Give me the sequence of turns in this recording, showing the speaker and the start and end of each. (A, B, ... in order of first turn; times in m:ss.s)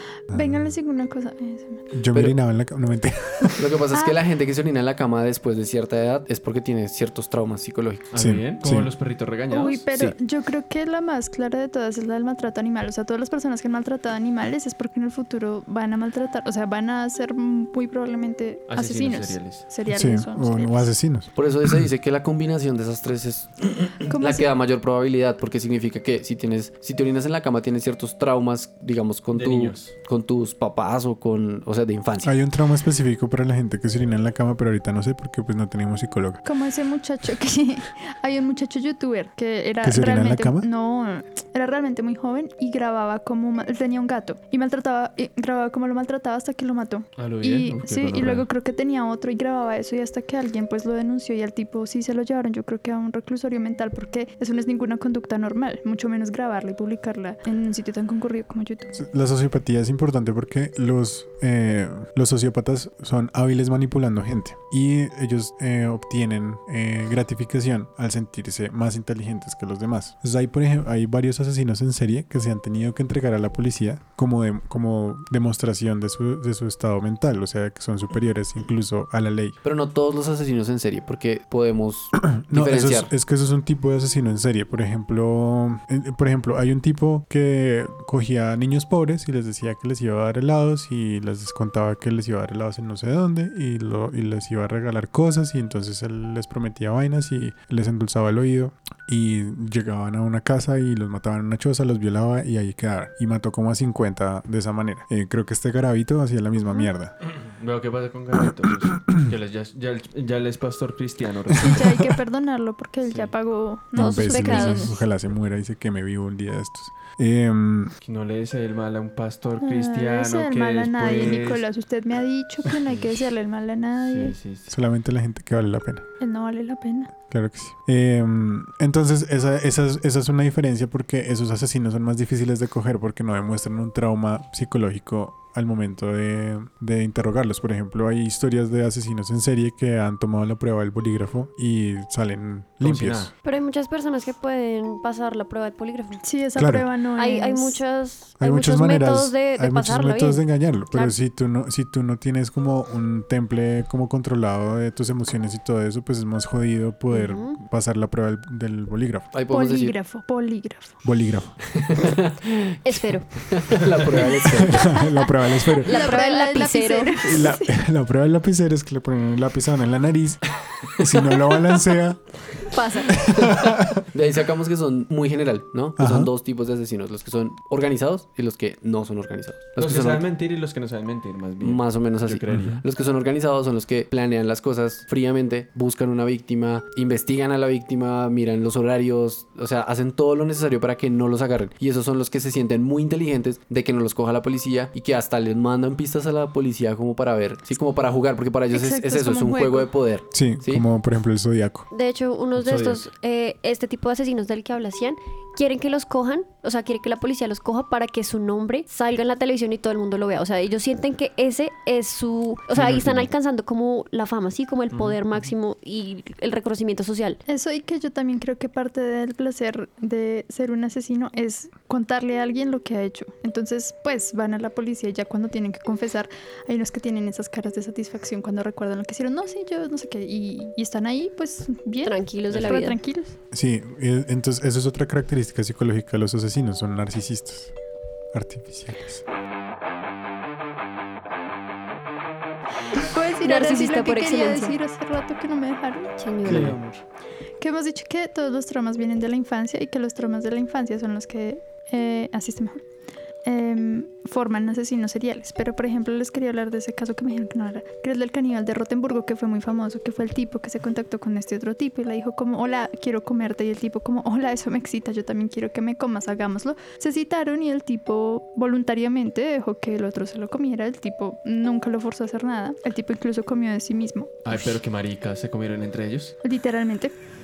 0:00.3-0:00.7 A
0:00.3-0:01.8 B
0:01.9-0:03.8 A
0:03.6-0:08.1 C
0:03.9-0:04.2 B
0:08.1-0:09.8 D
0:08.2-0:08.9 A
0:09.5-0:20.9 B
0:18.7-0:19.6 D
0:19.9-0:21.8 A
0:21.4-0:32.3 C
0:24.1-0:24.5 B
0:29.3-0:29.9 D
0:32.2-0:36.4 A
0:36.4-0:58.9 B
0:39.8-0:40.7 A
0:47.2-0:48.5 D
0:58.9-1:19.6 A
1:19.6-1:23.1 C
1:22.1-1:47.1 A
1:47.2-1:51.9 D
1:51.6-1:55.0 B
1:53.1-1:53.3 D
1:54.0-1:57.9 A
1:54.0-1:55.0 E
1:58.0-2:01.6 D
1:59.6-2:04.4 B
2:02.7-2:03.1 D
2:04.0-2:04.7 D
2:04.7-2:06.1 A
2:06.2-2:07.1 B
2:07.3-2:23.3 A
2:22.8-2:23.3 D
2:23.4-2:26.2 E
2:26.2-2:27.8 B
2:26.6-2:26.9 A
2:27.2-2:31.1 E
2:28.4-2:39.3 A
2:37.1-2:37.6 E
2:39.3-2:40.0 C
2:39.5-2:41.0 B
2:41.0-2:41.6 A
2:41.8-2:45.0 C
2:42.8-2:43.5 E
2:44.5-2:45.9 A
2:45.8-2:47.3 E
2:45.9-2:47.8 B
2:47.2-2:52.2 A
2:52.7-2:53.2 E
2:53.1-2:54.0 A
2:54.1-3:00.2 C
2:56.0-2:56.3 A
2:59.8-3:02.8 D
3:01.6-3:20.8 C
3:02.5-3:02.8 A
3:18.7-3:19.9 B
3:20.3-3:21.9 A
3:21.9-3:37.4 E
3:22.6-3:23.0 D
3:32.8-3:33.2 D
3:34.9-3:35.2 D
3:37.5-3:53.3 B
3:52.0-3:53.0 E
3:53.5-3:57.7 A
3:58.3-3:59.2 A
4:02.9-4:06.1 B
4:03.4-4:04.8 E
4:06.2-4:06.8 E
4:06.4-4:07.0 D
4:07.6-4:12.8 B
4:13.4-4:34.4 B
4:34.4-4:36.4 D
4:36.4-4:37.1 B